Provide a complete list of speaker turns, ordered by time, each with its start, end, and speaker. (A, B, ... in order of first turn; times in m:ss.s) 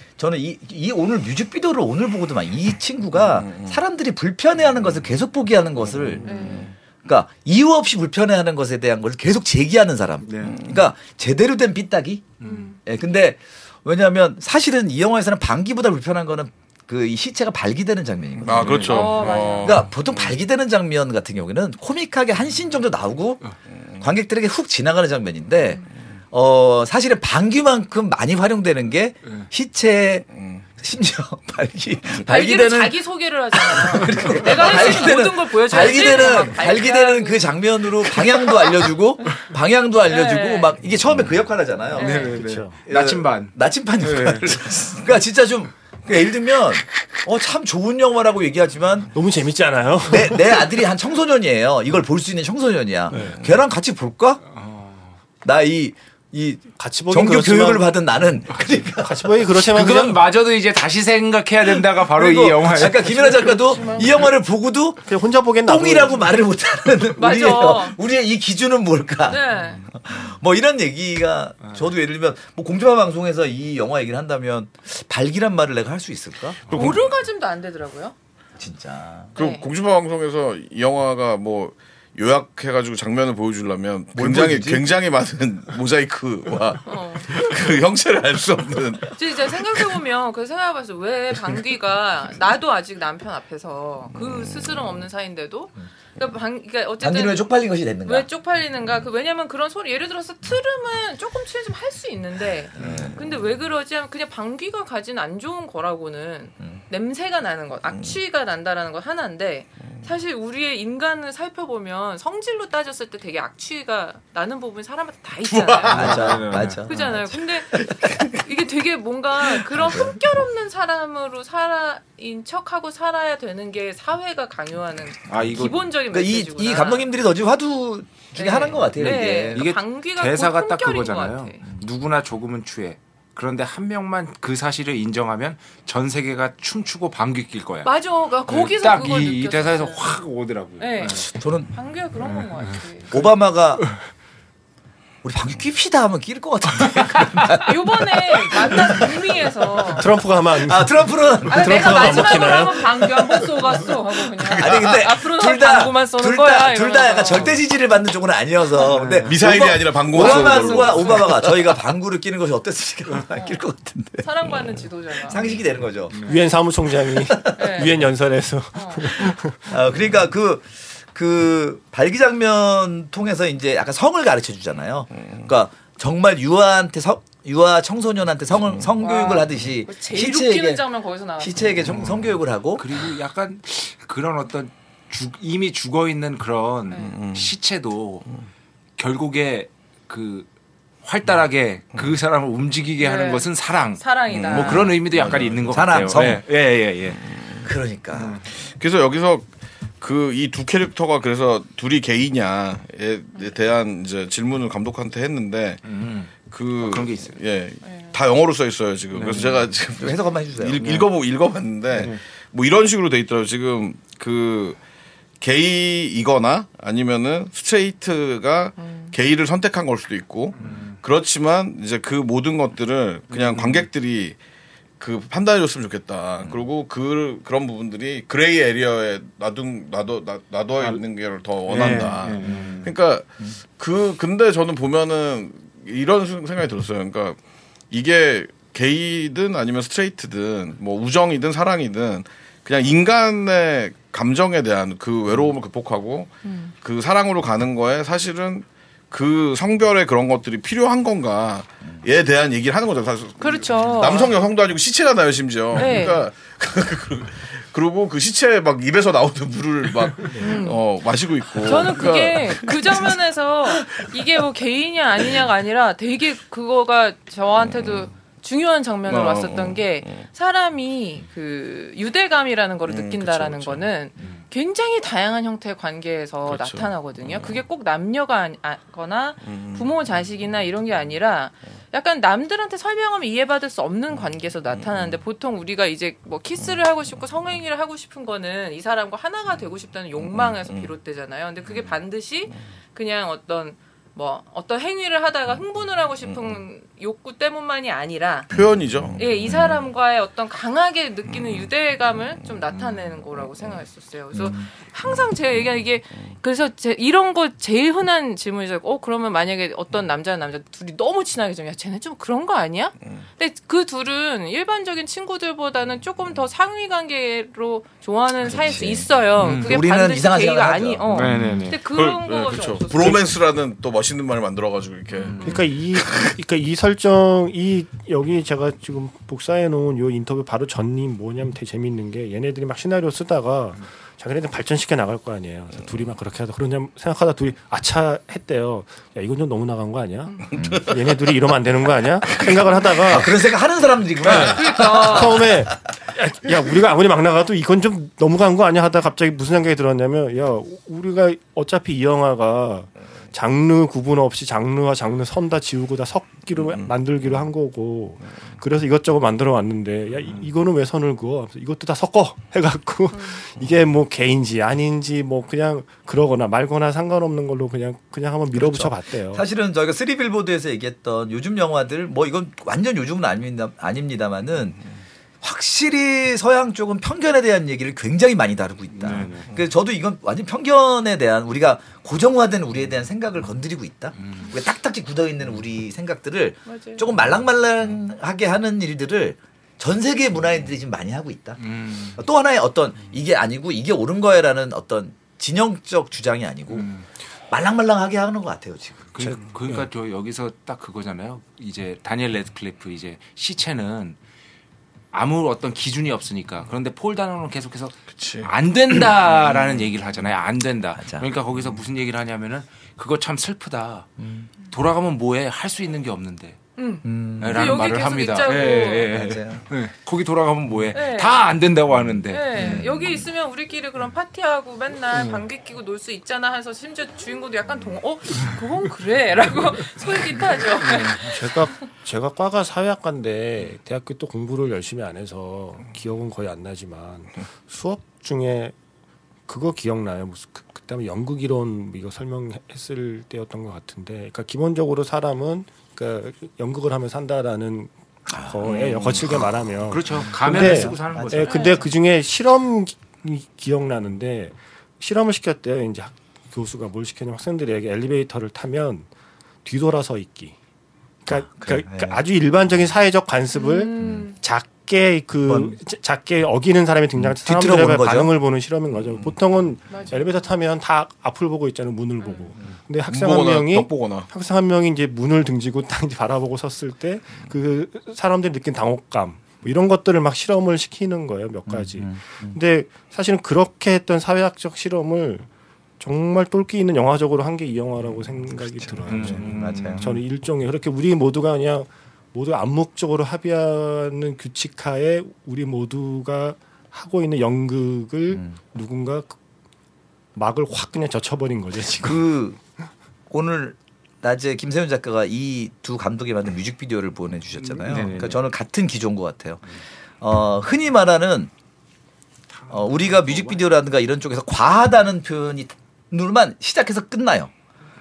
0:00.2-0:06.3 A
0:03.4-0:03.7 B
0:06.2-0:06.7 C
0:06.2-0:06.7 D
0:07.0-0:18.9 A
0:10.2-0:10.6 C
0:12.4-0:12.7 C
0:12.4-0:12.8 D
0:18.4-0:20.3 B
0:18.4-0:19.6 C
0:18.8-0:19.8 D
0:19.6-0:23.4 A
0:24.0-0:30.2 A
0:30.4-0:30.6 B
0:30.8-0:33.0 A
0:32.2-0:38.7 D
0:33.5-0:42.3 A
0:40.1-0:40.7 D
0:41.9-0:42.4 D
0:42.0-0:44.6 C
0:42.1-0:42.8 E
0:42.8-0:49.1 A
0:49.1-0:50.7 E
0:50.0-0:54.4 A
0:53.1-0:53.4 E
0:54.5-0:55.1 C
0:55.4-1:00.1 A
0:56.8-0:57.9 E
0:59.0-1:00.2 E
0:59.6-1:04.1 C
1:01.6-1:05.0 A
1:05.0-1:06.3 E
1:05.6-1:16.7 A
1:07.2-1:08.0 D
1:09.2-1:09.8 D
1:16.7-1:17.1 B
1:16.7-1:18.1 D
1:18.6-1:19.3 A
1:19.3-1:29.6 B
1:19.4-1:19.6 D
1:24.1-1:24.9 A
1:26.8-1:27.4 D
1:29.2-2:07.1 D
1:37.0-1:38.3 A
1:42.8-1:43.2 A
1:55.5-1:56.0 B
1:55.9-1:56.8 C
1:55.9-1:58.4 A
1:59.4-2:00.2 A
2:05.3-2:05.8 C
2:06.1-2:09.7 A
2:08.3-2:11.6 D
2:08.8-2:17.9 C
2:17.8-2:20.2 D
2:18.5-2:21.2 C
2:20.8-2:23.2 D
2:21.0-2:21.7 A
2:22.2-2:22.8 C
2:23.1-2:23.9 A
2:25.2-2:29.3 A
2:27.5-2:30.1 D
2:29.9-2:32.9 E
2:30.6-2:33.3 A
2:31.4-2:37.6 D
2:34.5-2:44.6 A
2:38.8-2:39.4 C
2:39.2-2:41.2 B
2:40.2-2:41.3 C
2:43.3-2:43.6 D
2:44.2-2:45.4 D
2:45.1-2:46.2 A
2:46.2-2:49.7 E
2:47.1-2:47.6 A
2:47.5-2:48.0 D
2:48.7-2:49.2 D
2:49.6-3:00.8 A
2:59.0-3:01.6 D
3:01.4-3:02.9 A
3:01.9-3:08.3 C
3:07.0-3:07.5 B
3:09.0-3:10.5 C
3:11.0-3:17.2 C
3:13.0-3:14.9 D
3:14.3-3:16.3 B
3:15.3-3:16.4 A
3:17.3-3:17.6 B
3:17.6-3:18.4 A
3:18.2-3:18.4 C
3:18.6-3:19.5 B
3:20.0-3:25.8 B
3:25.8-3:27.4 C
3:26.4-3:34.8 B
3:27.8-3:28.1 D
3:29.1-3:29.7 C
3:30.0-3:30.8 A
3:30.8-3:31.1 C
3:31.9-3:32.2 C
3:35.4-3:44.4 B
3:38.8-3:39.1 D
3:40.6-3:41.0 C
3:43.3-3:43.8 C
3:45.0-3:57.4 B
3:51.7-3:52.9 C
3:57.9-4:06.3 B
4:06.4-4:06.7 D
4:06.8-4:23.1 B
4:13.4-4:14.3 D
4:15.8-4:16.2 D
4:20.3-4:20.8 D
4:21.6-4:58.5 D
4:29.0-4:30.0 B
4:32.9-4:33.9 B
4:36.4-4:37.6 B
4:39.5-4:39.8 B
4:50.3-4:50.6 B
4:58.5-4:59.4 B
4:59.2-5:23.2 D
5:04.3-5:04.7 A
5:18.4-5:21.6 A
5:19.4-5:19.8 C
5:21.1-5:21.8 C
5:21.8-5:25.5 B
5:25.2-5:25.6 C
5:25.4-5:43.4 E
5:40.6-5:40.8 A
5:42.9-5:45.4 A
5:44.2-6:09.4 E
5:44.3-5:45.5 D
5:56.6-5:56.9 B
6:08.5-6:14.8 A
6:15.4-6:36.9 A
6:19.0-6:19.5 C
6:26.7-6:27.0 D
6:31.6-6:32.2 C
6:36.7-6:37.0 C
6:37.5-6:39.1 A
6:39.1-6:44.2 C
6:39.2-6:39.8 E
6:45.1-6:54.1 C
6:48.1-6:48.5 B
6:51.0-6:51.3 A
6:54.2-6:54.5 A
6:54.7-6:56.6 C
6:56.8-6:59.1 D
6:57.0-6:57.9 A
6:57.4-7:02.8 C
6:59.0-6:59.6 A
7:00.9-7:01.5 D
7:02.3-7:11.5 D
7:02.5-7:03.1 A
7:10.8-7:11.2 C
7:11.2-7:18.7 E
7:19.5-7:39.1 E
7:28.3-7:28.6 A
7:28.7-7:29.2 B
7:29.9-7:31.8 C
7:30.5-7:31.7 A
7:31.5-7:31.8 D
7:39.6-7:40.5 E
7:41.2-8:05.5 E
7:41.3-7:42.2 A
7:43.5-7:44.4 D
7:45.5-7:45.8 A
7:47.2-7:48.3 A
7:49.9-7:50.2 D
7:52.2-7:52.5 D
7:53.1-7:54.3 B
8:01.7-8:02.6 A
8:06.0-8:19.4 E
8:08.8-8:10.1 A
8:09.1-8:10.2 C
8:20.3-8:22.2 E
8:22.0-8:22.6 A
8:23.3-8:31.5 A
8:27.6-8:28.4 C
8:32.5-8:33.6 C
8:32.7-8:37.5 A